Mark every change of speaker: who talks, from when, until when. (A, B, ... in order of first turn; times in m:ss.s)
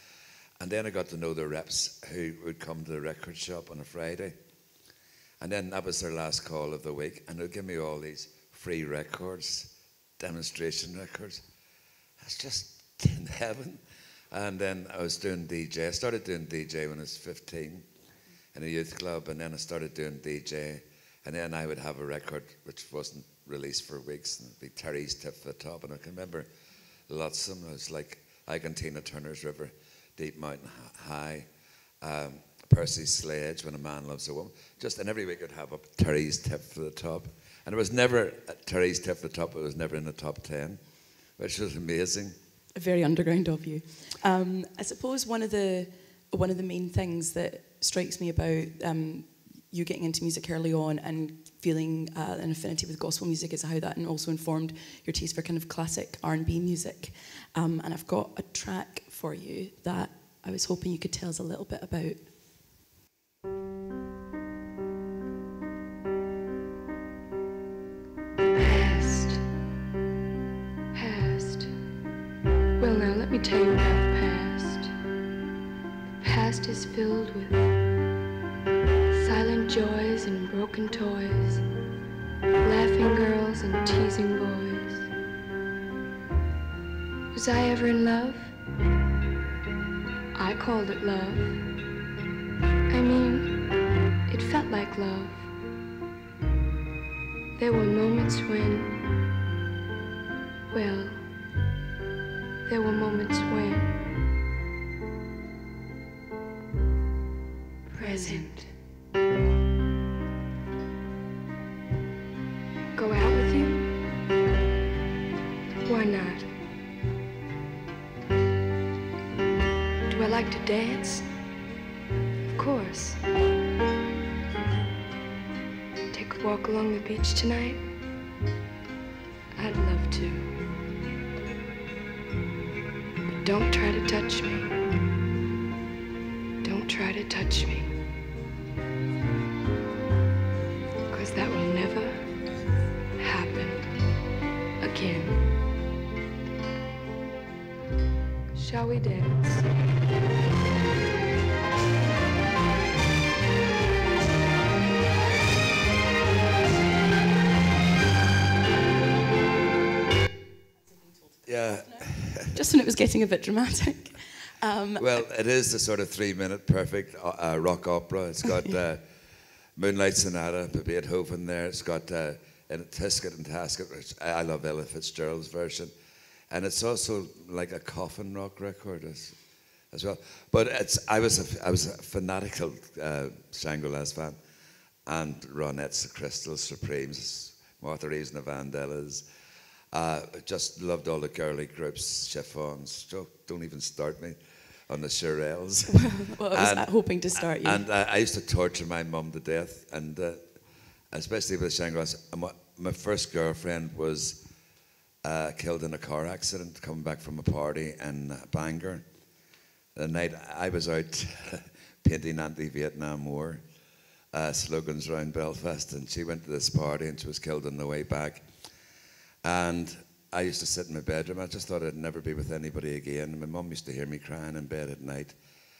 0:00.6-0:04.4 A
0:05.4-0:11.4 A
0:12.2-0:17.9 A
0:18.5-0:26.5 A
0:27.1-0:31.5 A
0:32.0-0:40.8 A
0:41.4-0:42.4 A
0:42.7-1:02.2 B
1:08.5-1:09.4 C
1:10.9-1:11.7 C
1:12.8-1:14.9 C
1:16.2-1:17.7 C
1:19.1-1:21.6 C
1:22.6-1:25.1 C
1:27.3-1:28.5 C
1:30.3-1:31.6 C
1:32.9-1:33.6 C
1:34.3-1:35.5 C
1:37.6-1:39.0 C
1:40.7-1:41.3 C
1:42.6-1:43.9 C
1:47.9-1:48.6 B
1:47.9-1:48.7 C
1:52.9-1:53.9 C
1:55.8-1:56.5 C
2:00.1-2:01.3 C
2:02.5-2:03.2 C
2:06.1-2:07.9 C
2:09.5-2:10.6 C
2:13.4-2:14.8 C
2:16.6-2:17.9 C
2:21.1-2:22.3 C
2:23.2-2:23.9 C
2:24.8-2:25.4 C
2:28.5-2:29.7 C
2:41.4-2:42.6 A
2:42.5-2:45.1 B
2:45.0-2:49.1 A
2:49.8-2:55.9 A
2:56.5-2:59.4 A
2:59.9-3:04.4 A
3:05.0-3:09.2 A
3:09.9-3:20.4 A
3:15.9-3:17.8 B
3:21.1-3:24.4 A
3:25.2-3:29.0 A
3:29.9-3:33.6 A
3:34.3-3:38.5 A
3:39.4-3:45.4 A